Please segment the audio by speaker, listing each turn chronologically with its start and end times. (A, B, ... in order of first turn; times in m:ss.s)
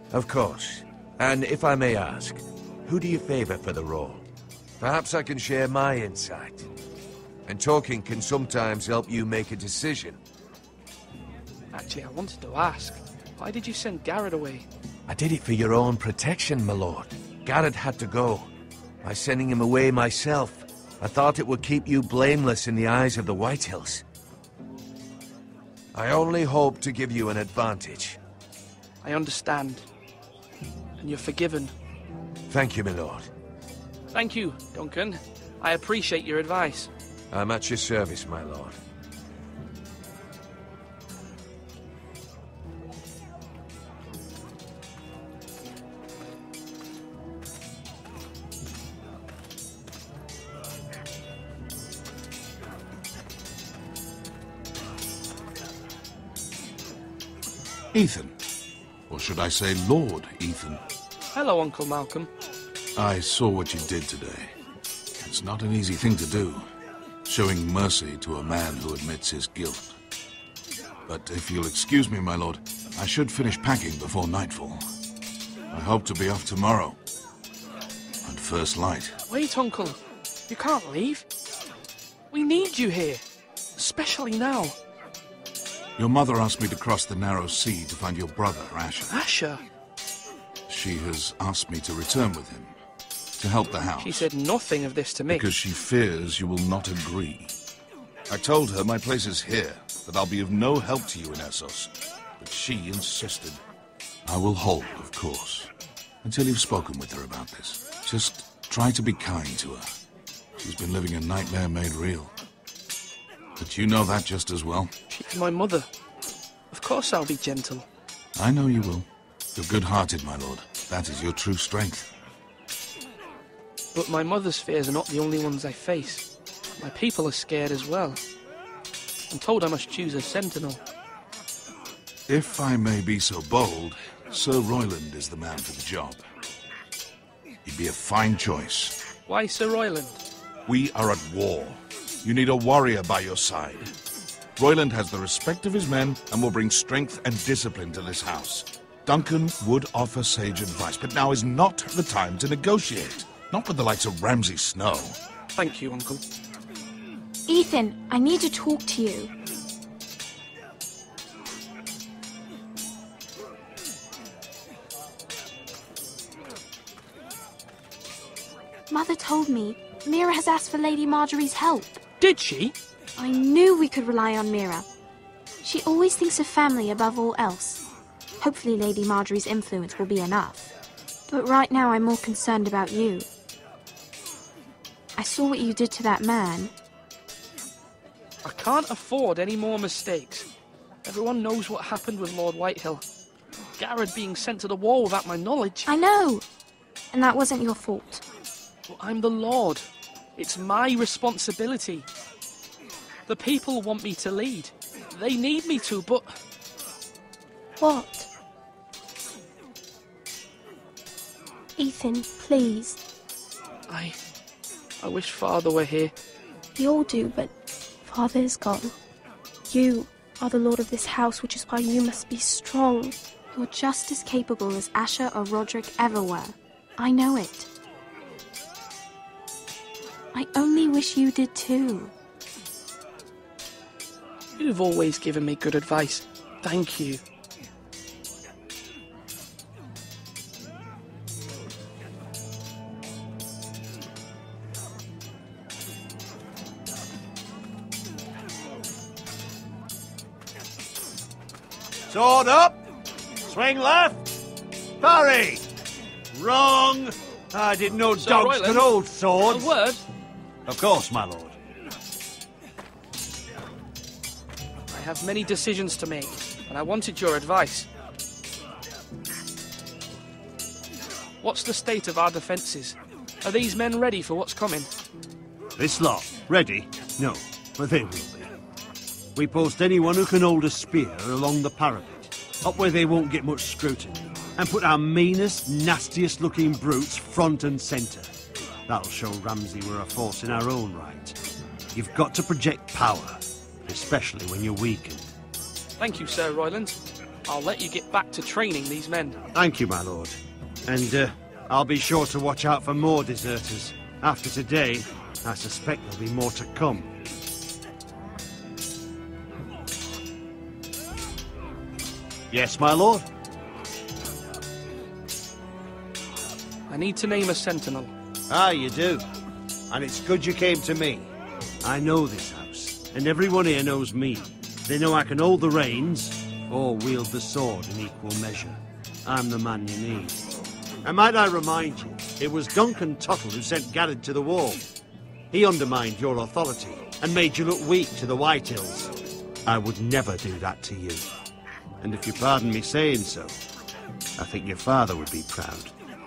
0:00.1-0:04.2 A
0:04.8-0:06.7 A
0:07.4-0:10.2 A
0:11.7-0:14.7 B
0:15.1-0:18.5 A
0:19.0-0:24.0 A
0:25.9-0:28.2 A
0:29.0-0:29.8 B
0:31.0-0:31.7 B
0:32.5-0:33.3 A
0:34.1-0:36.9 B
0:37.3-0:38.8 A
0:57.9-0:58.3 C
0:59.1-1:00.8 C
1:01.3-1:02.3 B
1:03.0-1:04.5 C
1:05.2-1:06.7 C
1:07.2-1:09.9 C
1:11.1-1:14.8 C
1:15.7-1:17.0 C
1:18.2-1:19.2 C
1:19.3-1:20.0 B
1:20.5-1:21.2 B
1:22.3-1:23.2 B
1:23.8-1:24.8 B
1:26.0-1:29.1 C
1:29.1-1:29.6 B
1:30.7-1:32.7 C
1:33.4-1:34.3 C
1:34.0-1:35.5 B
1:35.3-1:37.5 C
1:38.3-1:43.6 C
1:44.2-1:45.7 C
1:46.2-1:49.9 C
1:50.6-1:52.3 C
1:53.6-1:54.9 C
1:55.1-1:55.9 B
1:56.7-1:57.9 B
1:58.4-2:02.1 C
2:03.9-2:06.3 B
2:06.8-2:08.2 B
2:09.3-2:10.8 B
2:12.3-2:16.2 C
2:17.6-2:19.0 C
2:19.3-2:20.2 B
2:20.7-2:23.9 C
2:24.6-2:35.2 C
2:35.6-2:36.2 B
2:37.5-2:39.3 D
2:48.9-2:52.0 D
2:52.2-2:52.8 B
2:53.2-2:54.8 D
2:55.6-2:57.8 D
2:58.4-3:00.7 D
3:01.3-3:03.3 D
3:05.2-3:06.7 D
3:08.4-3:10.5 B
3:11.0-3:13.0 B
3:13.8-3:15.9 B
3:15.8-3:16.4 D
3:17.1-3:18.2 D
3:18.9-3:22.1 B
3:23.3-3:26.4 B
3:27.8-3:28.3 D
3:31.8-3:33.0 D
3:33.9-3:34.2 B
3:35.0-3:36.1 B
3:36.7-3:37.5 D
3:38.0-3:38.9 D
3:39.7-3:47.7 D
3:50.3-3:52.1 D
3:54.6-3:57.2 B
4:12.1-4:12.8 E
4:13.5-4:14.2 E
4:15.0-4:15.6 E
4:16.3-4:19.7 E
4:18.2-4:18.9 B
4:19.4-4:20.0 B
4:20.6-4:21.5 E
4:24.9-4:27.9 B
4:31.4-4:34.9 B
4:35.8-4:38.5 E
4:39.4-4:48.3 E
4:48.9-4:51.4 E
4:51.9-4:55.3 E
4:56.0-4:59.4 B
4:59.5-5:07.1 E
5:12.5-5:13.2 E
5:16.9-5:18.1 B
5:18.5-5:19.2 E
5:19.9-5:21.3 E
5:21.8-5:30.4 E
5:31.0-5:34.8 E
5:35.5-5:39.1 E
5:39.6-5:41.3 E
5:42.0-5:43.6 E
5:44.4-5:45.9 E